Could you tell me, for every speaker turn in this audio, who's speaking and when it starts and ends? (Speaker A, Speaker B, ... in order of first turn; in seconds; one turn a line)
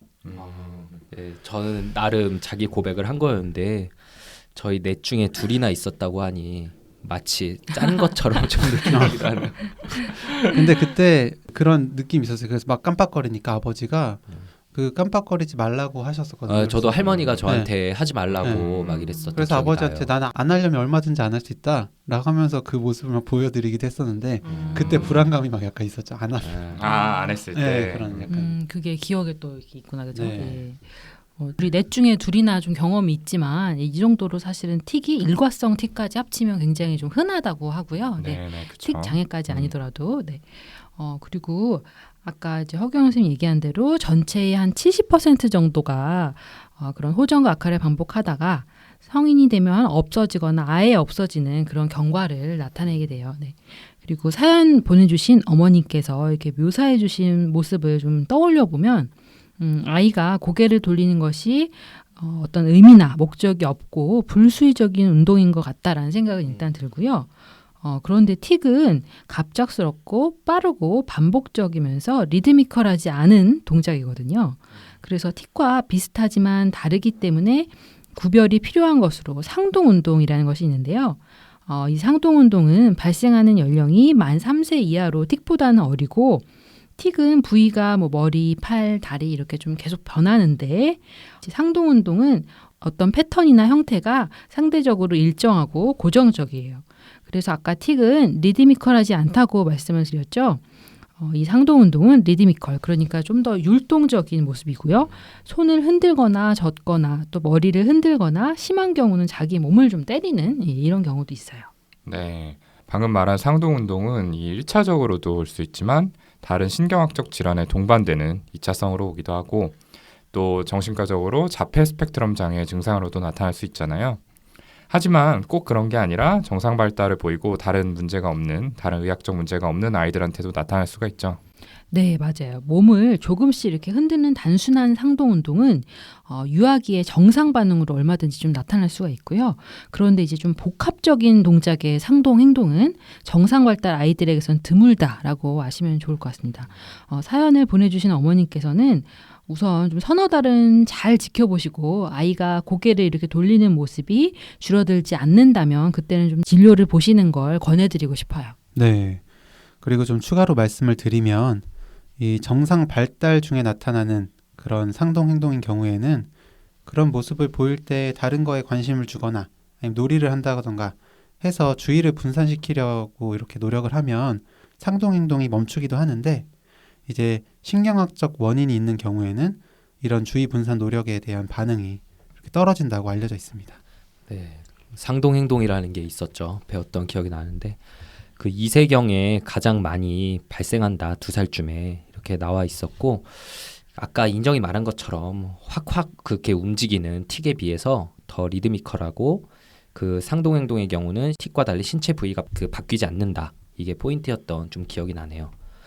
Speaker A: 0.2-1.0
Speaker B: 0.3-10.4
Speaker C: 8.9-9.2
Speaker C: 10.4-17.7
Speaker B: 16.5-20.1
Speaker A: 18.3-19.2
Speaker C: 19.3-26.8
Speaker D: 24.4-25.0
Speaker B: 24.5-25.2
Speaker A: 24.8-25.2
Speaker B: 26.4-26.9
Speaker A: 26.7-28.3
Speaker D: 26.8-27.4
Speaker C: 27.5-28.4
Speaker B: 28.1-28.5
Speaker D: 28.3-86.4
Speaker C: 30.1-30.6
Speaker A: 38.2-39.7
Speaker D: 87.0-100.6
Speaker D: 101.2-111.7
Speaker A: 112.0-119.8
Speaker A: 120.3-124.2
Speaker A: 124.9-131.4
Speaker D: 131.9-158.6
Speaker C: 158.7-159.2
Speaker C: 159.8-161.7
Speaker C: 162.2-166.3
Speaker C: 166.8-176.5
Speaker C: 177.1-183.8
Speaker B: 184.3-205.5